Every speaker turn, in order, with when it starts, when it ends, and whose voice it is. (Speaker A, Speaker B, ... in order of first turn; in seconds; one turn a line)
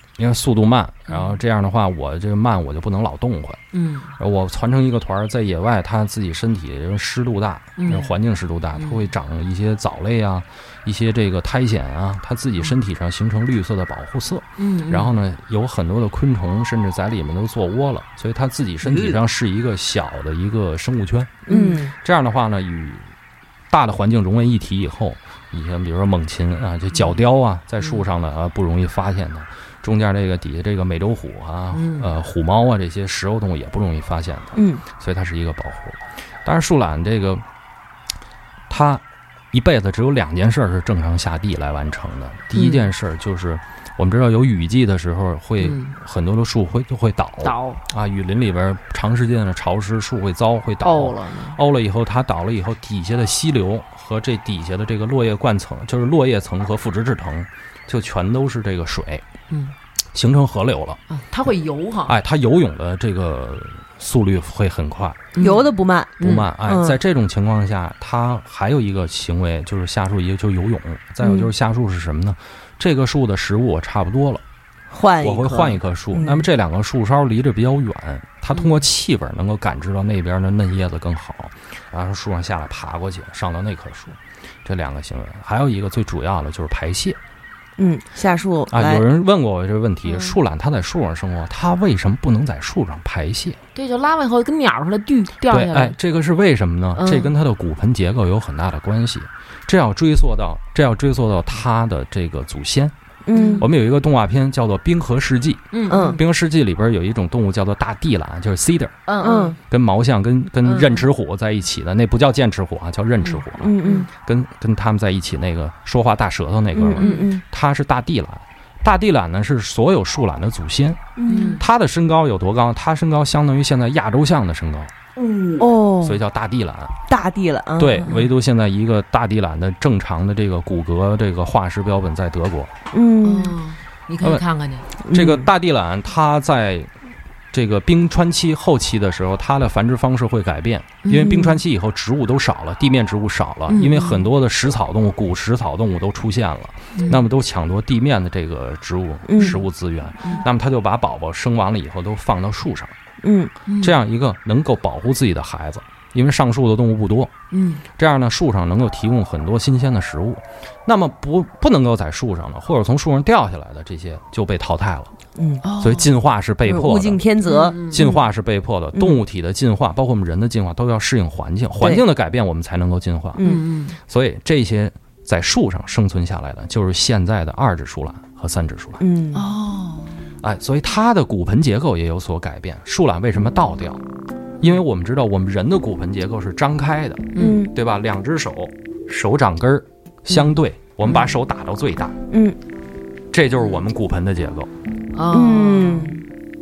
Speaker A: 0.2-3.6
Speaker B: 1.1-1.4
Speaker B: 3.7-4.1
Speaker A: 4.2-23.1
Speaker B: 7.8-8.1
Speaker B: 8.8-9.0
Speaker B: 14.6-15.2
Speaker B: 18.8-19.2
Speaker C: 21.5-21.9
Speaker B: 21.5-21.8
Speaker A: 23.7-37.4
Speaker B: 31.7-32.1
Speaker C: 34.6-34.8
Speaker A: 38.7-59.2
Speaker B: 42.5-42.9
Speaker B: 45.6-45.9
Speaker B: 47.4-47.8
Speaker B: 50.8-51.6
Speaker A: 60.1-61.5
Speaker B: 61.1-62.2
Speaker A: 62.0-65.3
Speaker B: 65.3-66.5
Speaker C: 65.4-67.0
Speaker A: 66.2-74.4
Speaker C: 74.9-76.5
Speaker A: 75.2-87.2
Speaker B: 78.6-78.8
Speaker C: 87.8-89.1
Speaker A: 88.7-93.6
Speaker B: 93.8-96.0
Speaker A: 95.5-102.9
Speaker B: 97.0-97.3
Speaker C: 103.3-103.7
Speaker B: 103.3-103.7
Speaker A: 103.6-109.0
Speaker B: 105.7-106.2
Speaker C: 105.9-106.2
Speaker B: 109.1-109.5
Speaker C: 109.2-109.6
Speaker A: 109.6-124.9
Speaker B: 110.7-111.1
Speaker B: 113.2-114.1
Speaker C: 113.6-114.1
Speaker C: 116.8-117.4
Speaker B: 117.0-117.3
Speaker C: 121.2-121.6
Speaker B: 121.3-121.6
Speaker B: 125.2-125.7
Speaker C: 125.6-126.2
Speaker A: 126.0-127.0
Speaker C: 127.1-128.1
Speaker A: 127.8-132.7
Speaker B: 128.0-128.3
Speaker C: 132.9-133.6
Speaker B: 133.2-134.8
Speaker C: 135.1-135.5
Speaker A: 135.1-136.9
Speaker A: 137.5-152.9
Speaker B: 141.0-141.5
Speaker C: 141.2-141.6
Speaker B: 143.7-144.3
Speaker B: 146.9-147.2
Speaker C: 149.3-149.6
Speaker C: 153.2-153.5
Speaker B: 153.7-154.0
Speaker A: 153.8-157.3
Speaker B: 157.5-157.8
Speaker A: 158.0-165.1
Speaker C: 165.4-165.6
Speaker B: 165.6-166.1
Speaker A: 165.8-167.3
Speaker C: 166.7-168.2
Speaker B: 167.4-168.0
Speaker A: 167.9-173.4
Speaker C: 168.9-169.2
Speaker C: 171.8-172.1
Speaker C: 173.4-173.6
Speaker B: 173.4-174.0
Speaker A: 174.0-179.0
Speaker C: 179.0-179.4
Speaker B: 179.3-180.1
Speaker A: 180.4-184.0
Speaker A: 184.6-192.2
Speaker B: 187.3-187.6
Speaker C: 187.4-187.7
Speaker C: 192.3-192.6
Speaker A: 193.3-194.7
Speaker B: 195.2-196.1
Speaker C: 195.3-196.2